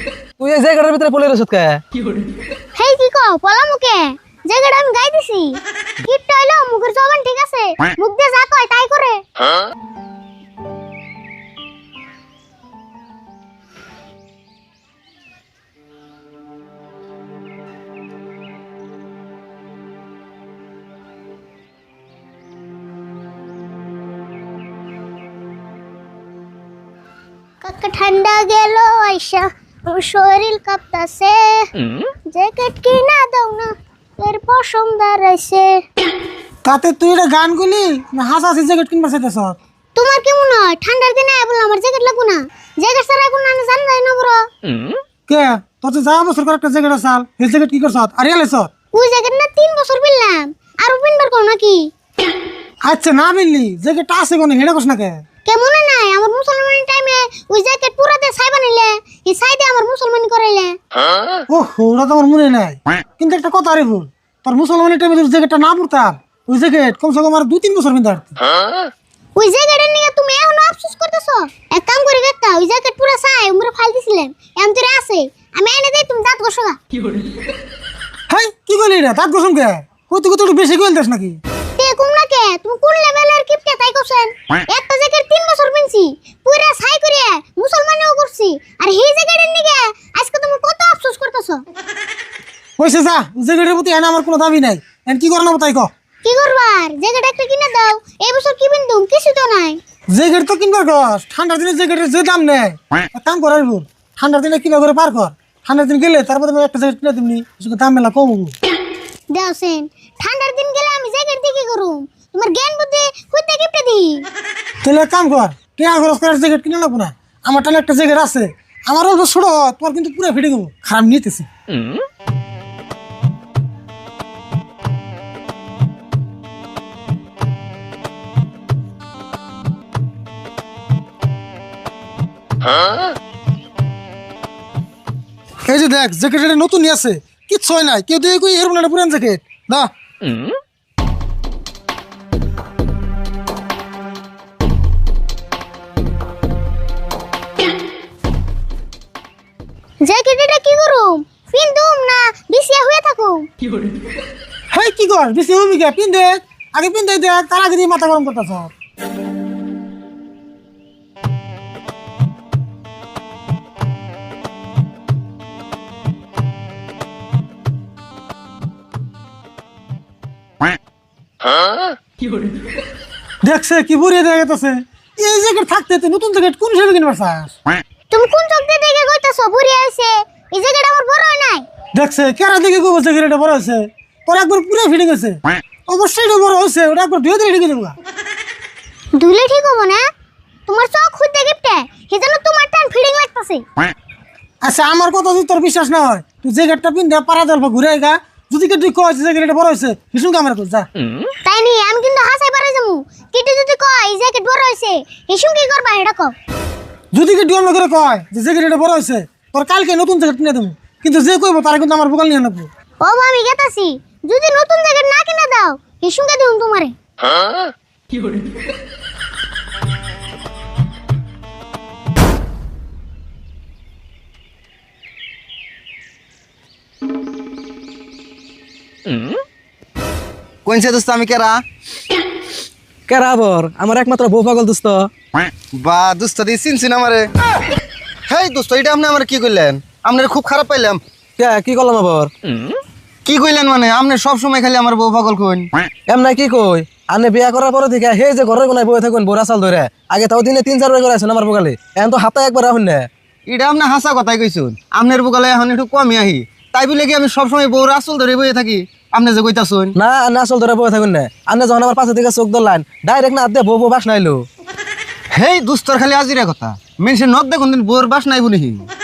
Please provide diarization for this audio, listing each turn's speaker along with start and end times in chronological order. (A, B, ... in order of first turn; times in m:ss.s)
0:00.4-0:01.8 A
0:02.8-0:09.2 B
0:27.6-0:31.7 B
0:32.3-0:35.8 B
0:36.7-0:39.6 C
0:40.0-0:44.5 B
0:45.3-0:48.7 C
0:48.9-0:51.9 B
0:52.9-0:55.2 C
0:55.5-1:00.8 B
1:01.5-1:08.4 C
1:09.4-1:16.8 B
1:18.3-1:21.4 C
1:21.8-1:31.6 B
1:32.8-1:35.9 C
1:36.2-1:39.8 B
1:40.2-1:48.5 C
1:49.3-1:54.3 B
1:54.8-2:01.5 C
2:15.7-2:19.9 C
2:30.0-2:33.5 B
2:34.8-2:38.7 C
2:53.4-2:57.5 C
2:58.1-3:01.7 B
3:02.0-3:08.0 C
3:09.2-3:10.0 B
3:10.7-3:13.6 B
3:14.6-3:20.9 C
3:21.4-3:26.3 B
3:27.2-3:32.7 C
3:33.0-3:36.9 B
3:50.7-3:51.6 D
3:53.1-3:55.1 A
3:55.8-3:57.3 D
3:58.3-4:01.0 D
4:01.4-4:02.3 A
4:03.3-4:05.7 D
4:06.1-4:13.1 A
4:13.5-4:20.0 D
4:20.0-4:24.4 A
4:25.4-4:28.9 D